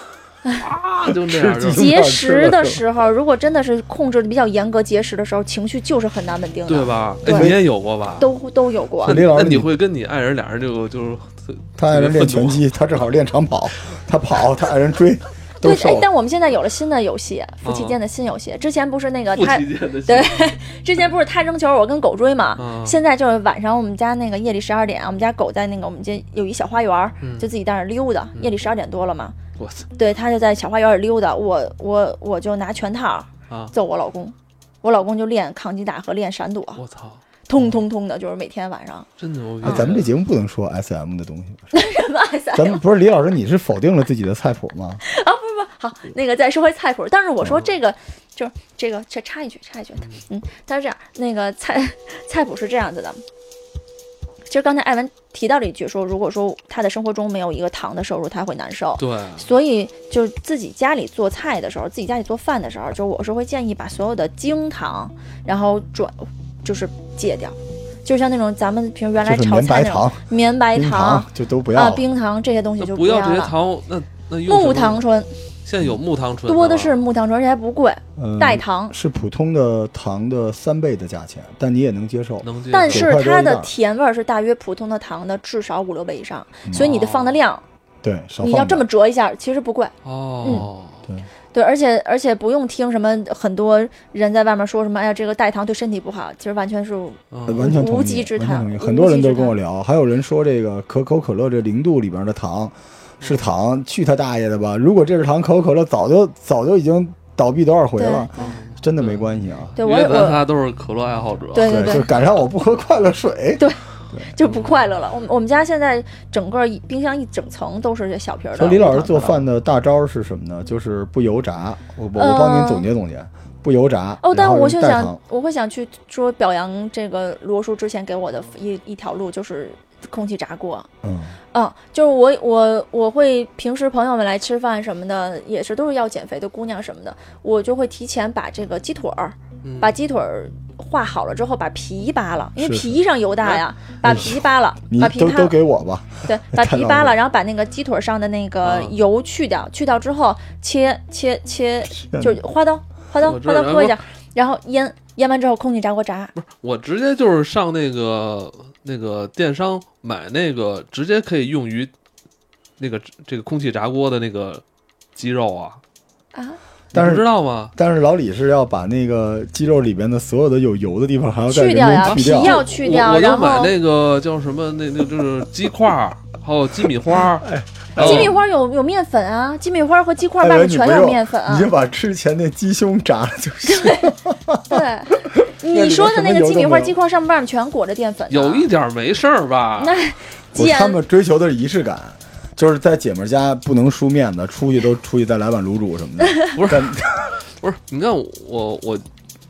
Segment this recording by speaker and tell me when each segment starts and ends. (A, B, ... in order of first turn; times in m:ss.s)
0:00.5-0:02.0 A
0:01.1-0:02.8 B
0:01.7-0:07.6 C
0:06.7-0:08.3 A
0:07.2-0:07.6 B
0:08.2-0:09.2 C
0:09.0-0:09.7 B
0:09.0-0:12.6 A
0:11.8-0:16.1 B
0:15.6-0:29.4 C
0:17.6-0:18.0 A
0:19.3-0:20.4 A
0:22.6-0:23.0 A
0:27.2-0:27.5 A
0:28.4-0:28.6 A
0:29.6-0:29.9 A
0:30.0-0:36.8 C
0:33.5-0:33.7 A
0:36.8-0:37.2 A
0:37.5-0:39.1 C
0:39.2-0:40.1 A
0:39.6-0:41.7 B
0:39.6-0:39.9 C
0:41.7-0:42.8 C
0:42.5-0:45.0 B
0:45.0-0:53.2 C
0:47.4-0:47.7 B
0:50.0-0:50.2 A
0:54.5-1:13.5 C
0:59.0-0:59.5 A
1:09.2-1:12.0 B
1:12.8-1:15.0 A
1:14.5-1:15.3 C
1:15.6-1:17.0 A
1:16.5-1:19.0 C
1:18.2-1:23.7 B
1:22.4-1:23.1 A
1:22.7-1:27.6 C
1:26.7-1:27.4 A
1:28.0-1:28.8 B
1:28.4-1:30.6 C
1:30.0-1:31.0 A
1:30.4-1:31.3 B
1:31.5-1:39.6 C
1:37.3-1:37.7 A
1:37.5-1:49.8 B
1:43.2-1:43.5 A
1:48.0-1:48.5 C
1:48.4-1:52.1 A
1:49.8-1:50.4 C
1:51.5-1:52.1 C
1:51.6-1:54.3 B
1:53.6-1:59.4 C
1:54.4-1:54.8 A
1:58.6-2:05.2 B
2:02.2-2:02.9 C
2:04.2-2:10.9 C
2:11.0-2:11.4 B
2:11.5-2:25.6 C
2:19.6-2:19.9 A
2:22.6-2:23.0 B
2:23.4-2:24.3 A
2:24.0-2:27.2 B
2:26.2-2:36.3 C
2:28.6-2:29.0 A
2:32.0-2:32.4 B
2:33.2-2:34.0 A
2:36.3-2:41.9 A
2:42.8-2:44.6 A
2:45.2-2:45.8 A
2:46.3-2:46.6 C
2:46.9-2:47.7 A
2:46.9-2:52.6 B
2:51.5-2:53.7 C
2:52.0-2:58.4 A
2:57.4-2:58.4 B
2:58.0-3:01.7 C
3:00.4-3:07.0 B
3:03.7-3:04.1 C
3:04.7-3:08.7 C
3:08.3-3:10.0 A
3:09.8-3:11.0 C
3:10.5-3:17.3 B
3:16.5-3:19.0 A